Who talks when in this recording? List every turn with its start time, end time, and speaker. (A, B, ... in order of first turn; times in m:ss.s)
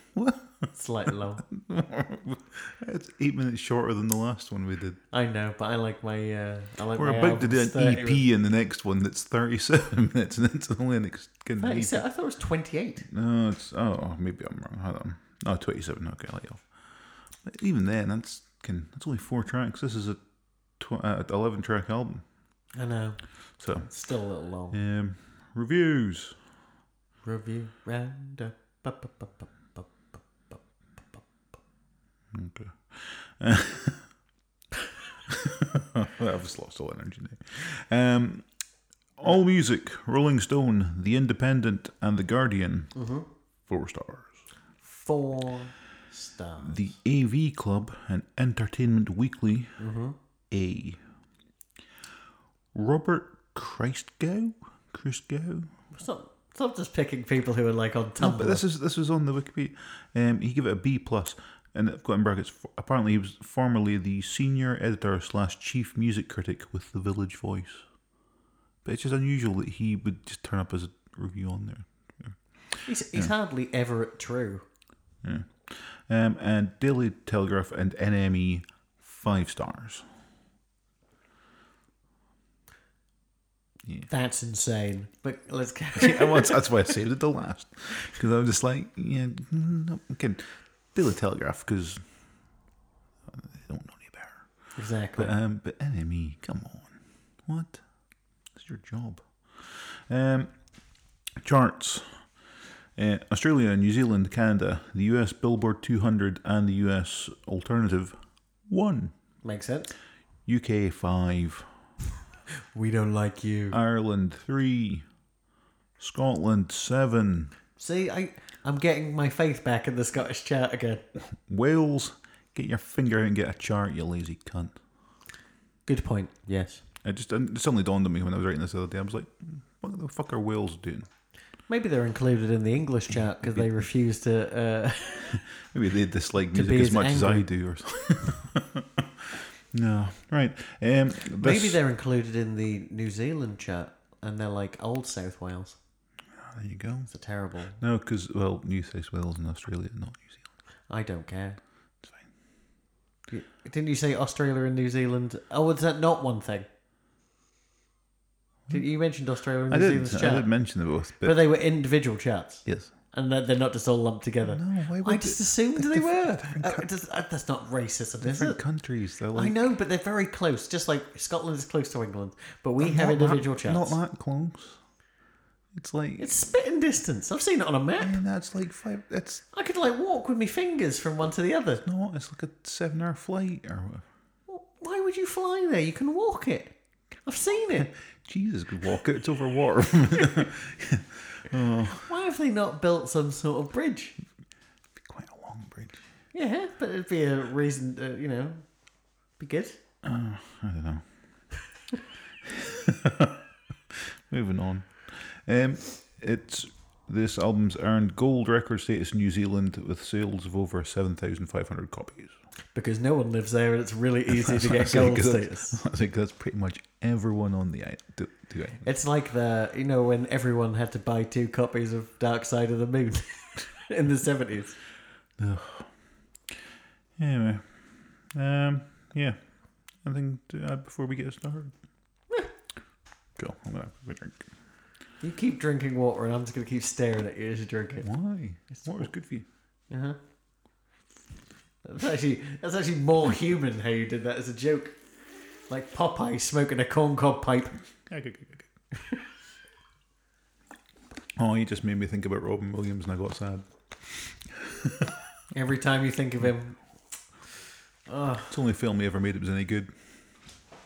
0:00.1-0:05.0 A
0:00.7-0:01.4 B
0:05.1-0:08.2 B
0:06.9-0:12.1 A
0:11.6-0:13.1 B
0:13.1-0:20.2 A
0:20.8-0:22.2 A
0:22.8-0:24.8 B
0:23.6-0:23.9 A
0:24.7-0:26.4 A
0:27.2-0:31.2 B
0:32.3-0:34.1 A
0:35.3-0:38.5 A
0:39.2-0:43.0 A
0:43.0-0:43.3 B
0:43.7-0:44.4 A
0:44.8-0:46.9 B
0:46.6-0:49.8 A
0:49.8-0:50.2 B
0:50.5-0:51.0 A
0:52.7-0:55.7 A
0:55.9-0:58.6 B
0:58.2-1:07.8 A
1:08.8-1:13.3 A
1:12.8-1:14.6 B
1:15.2-1:20.1 A
1:23.8-1:24.1 A
1:24.1-1:26.7 B
1:26.0-1:32.0 A
1:33.3-1:37.8 A
1:34.8-1:35.3 B
1:38.5-1:40.6 A
1:41.4-1:42.3 A
1:43.0-1:49.1 A
1:49.4-1:49.9 B
1:50.5-1:51.7 A
1:52.7-1:53.8 B
1:53.7-1:55.0 A
1:56.0-1:57.5 A
1:57.8-2:01.0 B
2:01.2-2:04.8 A
2:05.9-2:06.8 B
2:07.0-2:11.1 A
2:11.7-2:15.4 B
2:13.4-2:13.9 A
2:15.3-2:21.8 A
2:16.5-2:17.5 B
2:21.4-2:25.8 B
2:26.3-2:27.1 A
2:27.1-2:27.8 B
2:27.8-2:30.4 A
2:30.9-2:31.6 B
2:33.3-2:36.7 B
2:38.7-2:40.5 B
2:39.7-2:41.4 A
2:41.2-2:48.6 B
2:42.6-2:42.9 A
2:44.4-2:46.9 A
2:48.2-2:49.6 A
2:49.3-2:54.0 B
2:52.8-2:54.8 A
2:55.7-2:56.3 A
2:56.2-2:58.2 B
2:58.0-2:59.4 A
2:59.5-3:01.8 B
3:01.8-3:04.0 A
3:04.5-3:07.9 B
3:07.8-3:12.1 A
3:12.0-3:14.2 B
3:15.0-3:16.0 A
3:16.3-3:18.7 B
3:19.4-3:19.8 B
3:20.0-3:21.0 A
3:22.4-3:32.3 A
3:32.8-3:35.8 B
3:34.3-3:38.9 A
3:38.8-3:44.8 B
3:45.4-3:45.9 A
3:47.2-3:49.4 A
3:50.0-3:51.8 A
3:53.4-3:54.5 A
3:55.2-3:58.1 B
3:58.0-3:59.4 A
3:58.7-3:59.1 B
3:59.9-4:00.2 B
4:01.8-4:05.0 B
4:05.7-4:07.8 B
4:08.1-4:08.7 A
4:09.0-4:09.2 B
4:11.4-4:15.2 A
4:15.5-4:16.8 B
4:18.1-4:18.5 B
4:18.5-4:19.9 A